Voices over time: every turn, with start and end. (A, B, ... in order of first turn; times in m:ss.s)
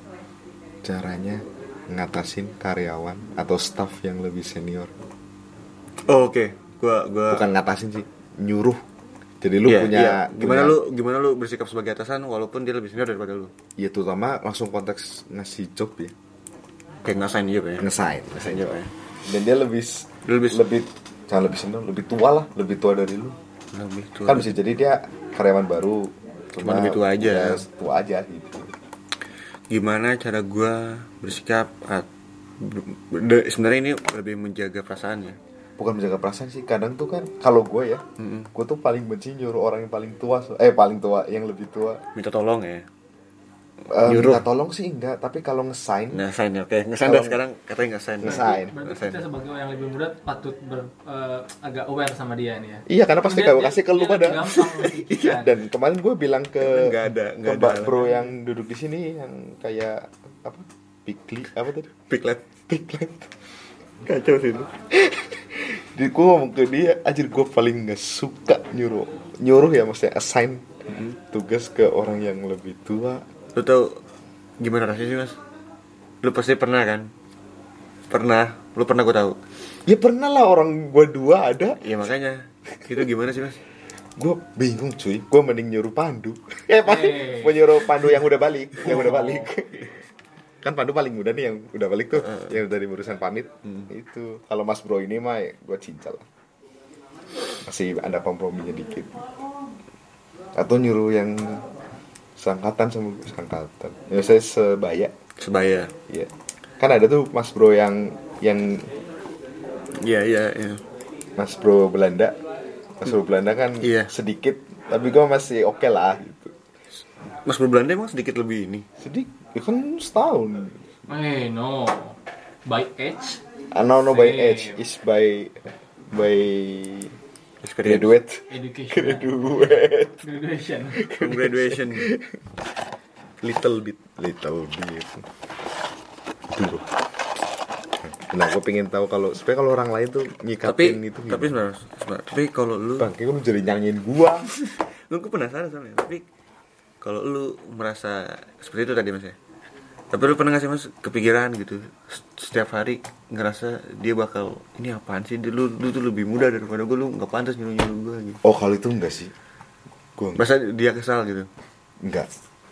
0:00.8-0:04.9 A
0:06.1-0:07.4 B
0:07.3-0:08.8 A
0:09.4-0:10.8 A
0:09.6-0:13.5 B
0:13.8-0:16.1 A
0:17.0-0:18.9 B
0:17.8-0:23.3 A
0:20.2-0:20.6 B
0:23.7-0:24.5 B
0:24.3-0:28.7 A
0:26.6-0:27.6 B
0:29.7-0:32.1 B
0:32.6-0:35.4 B
0:35.8-0:42.0 A
0:38.2-0:38.5 B
0:42.1-0:42.8 B
0:43.9-0:46.2 A
0:44.0-0:44.4 B
0:46.1-0:49.2 B
0:47.0-0:47.4 A
0:48.2-0:48.7 A
0:48.2-0:55.5 C
0:52.9-0:54.6 A
0:55.2-1:01.9 A
0:56.6-0:58.1 B
1:02.0-1:02.6 B
1:02.7-1:03.2 A
1:04.0-1:04.7 B
1:05.0-1:13.2 A
1:13.5-1:14.0 B
1:14.6-1:15.4 B
1:16.2-1:17.1 B
1:18.1-1:19.4 B
1:19.8-1:21.8 A
1:21.8-1:23.6 B
1:24.2-1:29.9 A
1:26.8-1:27.7 C
1:30.6-1:36.2 A
1:37.6-1:39.2 A
1:40.5-1:41.6 A
1:42.4-1:45.1 A
1:45.4-1:45.9 B
1:46.1-1:48.9 A
1:49.9-1:50.8 B
1:51.4-1:52.3 A
1:53.0-1:56.5 A
1:53.8-1:54.1 B
1:57.4-1:58.8 B
1:59.0-2:00.8 A
2:01.1-2:03.4 C
2:03.7-2:07.1 A
2:04.0-2:04.8 C
2:07.6-2:08.2 B
2:07.8-2:10.2 A
2:08.5-2:09.4 C
2:10.2-2:11.0 C
2:11.0-2:12.3 A
2:11.1-2:12.1 B
2:13.4-2:15.2 A
2:16.5-2:16.9 A
2:18.0-2:21.6 A
2:20.6-2:23.1 B
2:23.0-2:24.5 A
2:24.6-2:26.2 B
2:27.0-2:29.4 B
2:30.1-2:38.4 B
2:38.4-2:39.3 A
2:40.2-2:40.4 A
2:40.4-2:41.5 B
2:42.0-2:42.3 A